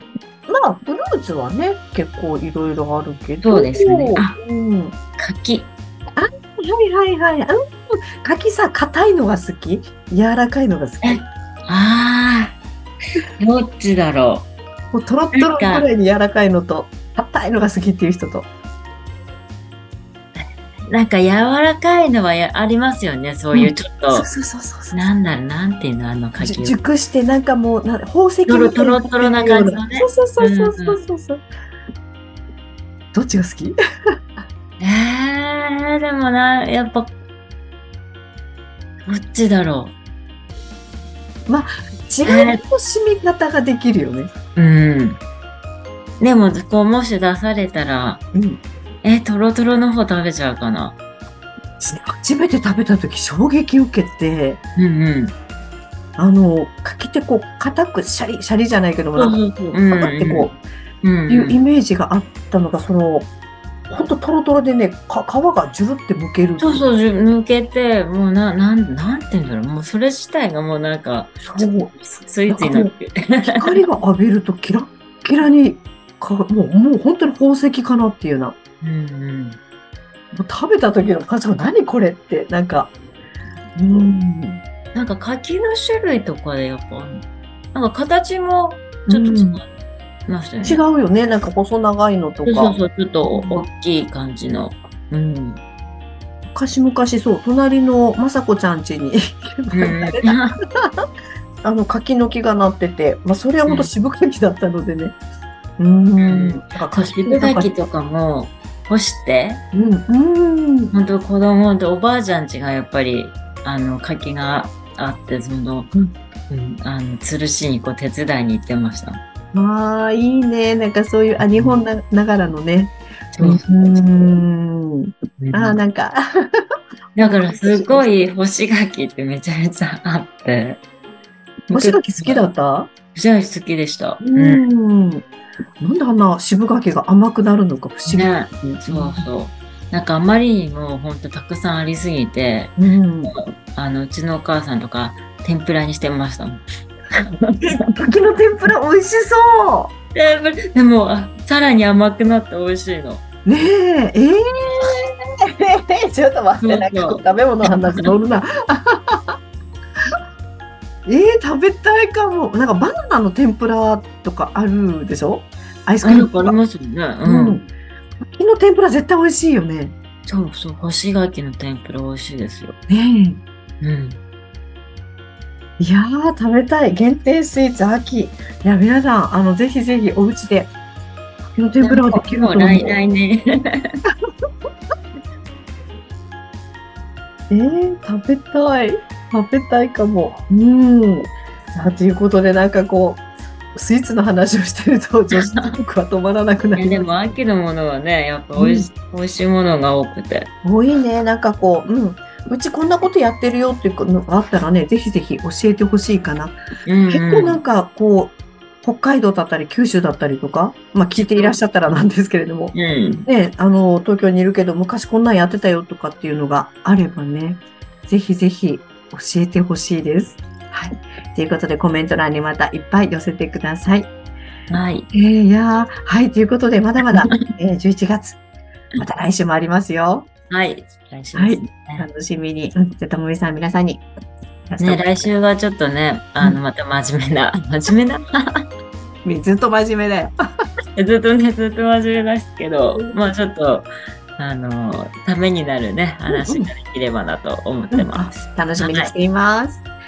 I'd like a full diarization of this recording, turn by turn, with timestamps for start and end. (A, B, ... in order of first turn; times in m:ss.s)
0:00.5-0:04.9 A
0:03.4-0:04.4 B
0:05.2-0:05.7 B
0:06.2-0:11.2 A
0:11.0-0:12.5 B
0:13.4-0:14.5 B
0:14.9-0:18.5 A
0:15.3-0:15.9 B
0:20.3-0:24.3 B
0:23.5-0:25.1 A
0:24.9-0:26.8 B
0:26.4-0:31.4 A
0:28.5-0:31.0 B
0:33.1-0:33.8 A
0:34.8-0:37.1 B
0:39.0-0:39.9 B
0:41.5-0:44.3 A
0:42.2-0:42.6 B
0:44.5-0:45.2 B
0:46.2-0:48.2 B
0:48.3-0:48.6 A
0:49.0-0:51.0 B
0:51.8-0:54.6 A
0:54.8-0:55.3 B
0:56.2-1:00.6 A
0:59.2-1:00.5 B
1:01.0-1:01.6 B
1:01.3-1:03.3 A
1:03.9-1:06.9 A
1:06.6-1:13.8 B
1:11.4-1:11.9 A
1:12.5-1:12.9 A
1:13.4-1:18.5 A
1:18.8-1:19.6 B
1:20.3-1:22.9 A
1:23.7-1:24.6 A
1:24.9-1:29.7 B
1:29.1-1:29.6 A
1:30.2-1:30.8 B
1:30.6-1:32.7 A
1:32.4-1:35.6 B
1:33.3-1:33.6 A
1:36.5-1:41.0 A
1:39.7-1:40.6 B
1:41.6-1:45.1 A
1:43.6-1:43.9 B
1:45.8-1:47.7 A
1:46.2-1:49.6 B
1:49.7-1:50.9 A
1:50.9-1:55.9 B
1:56.5-1:59.2 B
1:59.5-2:06.6 A
2:01.4-2:01.8 B
2:03.3-2:04.3 B
2:05.4-2:05.8 B
2:07.2-2:10.8 B
2:07.2-2:08.1 A
2:11.7-2:12.5 B
2:11.7-2:12.9 A
2:13.1-2:14.6 B
2:14.2-2:15.3 A
2:15.8-2:19.2 A
2:18.0-2:26.6 B
2:22.8-2:23.3 A
2:27.2-2:27.6 B
2:27.6-2:29.9 A
2:30.1-2:33.2 B
2:33.4-2:39.3 A
2:34.7-2:35.0 B
2:36.6-2:38.1 B
2:41.0-2:46.6 A
2:46.0-2:47.6 B
2:47.2-2:47.7 A
2:48.3-2:49.9 A
2:50.3-2:52.8 B
2:52.9-2:53.4 A
2:53.8-2:54.2 B
2:55.8-3:00.7 A
3:01.5-3:03.0 A
3:01.8-3:04.0 B
3:07.5-3:13.2 A
3:13.7-3:17.0 A
3:15.3-3:15.8 B
3:16.7-3:20.5 B
3:18.6-3:18.9 A
3:20.6-3:26.6 A
3:26.8-3:27.6 B
3:27.1-3:32.7 A
3:32.7-3:33.3 B
3:33.2-3:44.1 A
3:44.7-3:45.1 B
3:45.1-3:48.4 A
3:49.0-3:50.3 A
3:50.5-3:52.1 B
3:51.3-3:54.0 A
3:54.7-3:55.3 A
3:54.8-3:58.6 B
3:59.2-4:00.3 A
4:01.0-4:09.1 B
4:06.3-4:06.7 A
4:07.9-4:09.8 A